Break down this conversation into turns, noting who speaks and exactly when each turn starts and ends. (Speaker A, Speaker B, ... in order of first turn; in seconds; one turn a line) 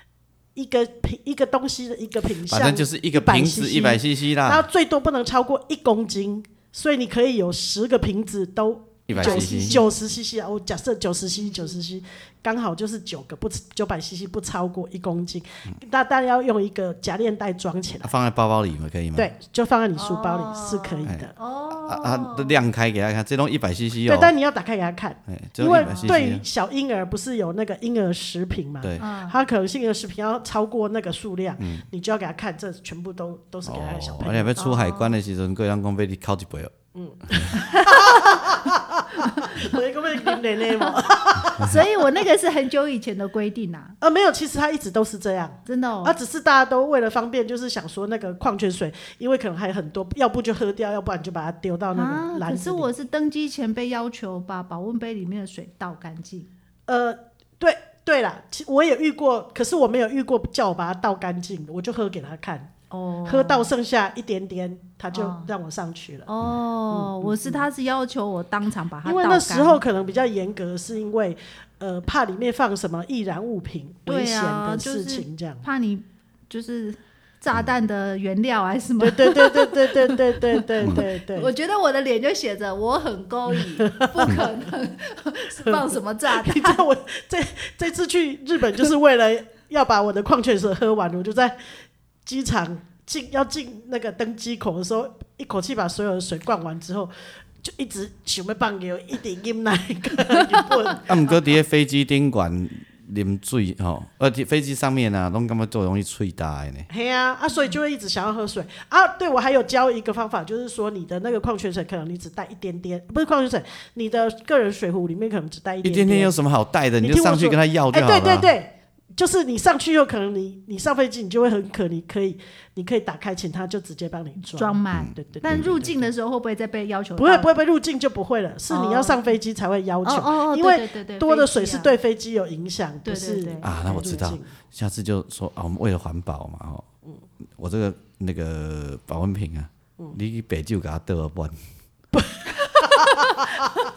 Speaker A: 0.6-18.1
Speaker B: 2.5-4.7
Speaker B: 9.1-9.8
Speaker C: 9.2-9.8
Speaker C: 11.4-11.8
Speaker B: 18.0-19.3
Speaker A: 19.1-21.3
Speaker C: 20.0-22.6
Speaker B: 21.9-24.3
Speaker A: 24.1-34.6
Speaker B: 25.3-26.4
Speaker C: 25.7-26.1
Speaker C: 29.0-29.4
Speaker B: 31.6-31.8
Speaker B: 33.6-36.7
Speaker C: 34.6-35.1
Speaker A: 37.0-42.2
Speaker B: 37.3-37.5
Speaker C: 37.5-38.4
Speaker C: 39.2-39.8
Speaker C: 40.3-44.0
Speaker A: 44.0-52.9
Speaker C: 45.6-46.1
Speaker C: 52.0-56.5
Speaker A: 56.9-62.7
Speaker C: 62.9-63.7
Speaker A: 63.2-66.3
Speaker C: 65.1-65.5
Speaker C: 66.3-69.8
Speaker A: 66.9-67.7
Speaker A: 69.0-75.6
Speaker C: 74.1-86.8
Speaker A: 79.0-81.5
Speaker A: 83.6-84.4
Speaker A: 85.6-91.6
Speaker A: 92.2-101.1
Speaker B: 101.1-106.9
Speaker A: 106.9-116.3
Speaker B: 115.8-118.5
Speaker A: 117.0-126.1
Speaker C: 124.4-127.5
Speaker B: 124.9-125.7
Speaker A: 127.2-134.5
Speaker C: 128.7-129.3
Speaker C: 130.0-131.9
Speaker C: 133.0-134.2
Speaker B: 133.6-136.8
Speaker B: 137.6-141.6
Speaker A: 142.2-143.5
Speaker C: 142.6-143.4